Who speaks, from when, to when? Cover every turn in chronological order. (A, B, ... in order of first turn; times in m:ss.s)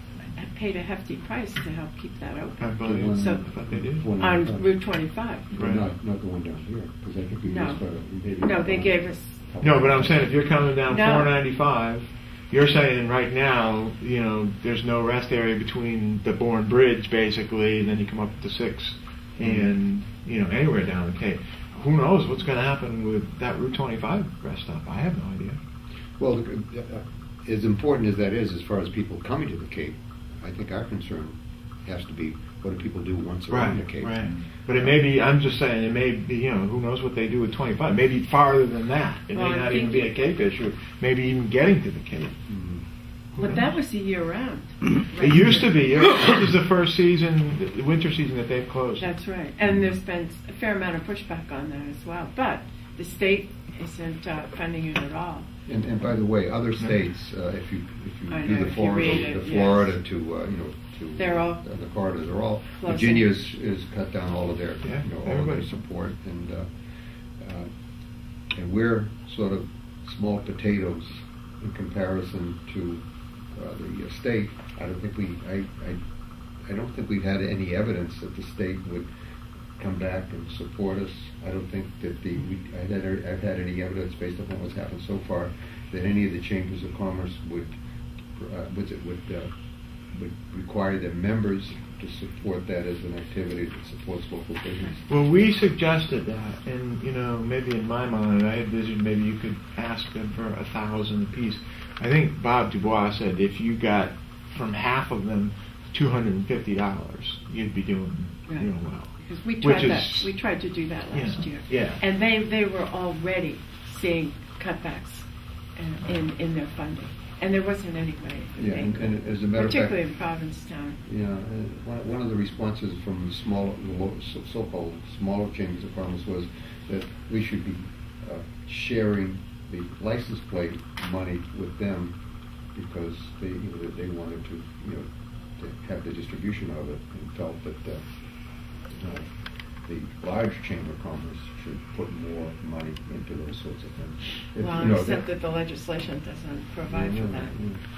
0:00.3-0:03.4 A
0:02.6-0:04.1 B
0:02.8-0:04.7 C
0:04.2-0:05.5 A
0:05.5-0:10.3 C
0:05.5-0:05.8 B
0:07.5-0:07.8 A
0:08.4-0:09.4 A
0:09.6-0:25.6 B
0:10.9-0:11.3 A
0:19.4-0:19.7 C
0:26.2-0:35.0 C
0:33.5-0:42.4 B
0:39.3-0:40.1 A
0:42.5-0:42.8 C
0:43.4-0:43.7 B
0:43.4-0:45.8 A
0:45.2-0:49.1 B
0:49.0-0:55.5 A
0:55.7-1:06.7 C
0:58.3-1:00.0 A
1:01.2-1:01.6 A
1:02.7-1:03.3 A
1:04.8-1:05.7 B
1:07.4-1:07.7 C
1:08.6-1:16.0 C
1:16.7-1:19.1 C
1:19.8-1:27.8 C
1:28.4-1:29.5 C
1:30.1-1:35.5 C
1:35.1-1:50.3 B
1:48.5-2:01.0 A
1:51.1-1:52.0 B
1:58.6-2:00.0 C
2:01.0-2:12.2 C
2:12.7-2:15.1 C
2:15.6-2:18.0 C
2:18.9-2:19.3 C
2:19.9-2:25.3 C
2:24.6-2:27.5 A
2:26.9-2:27.8 C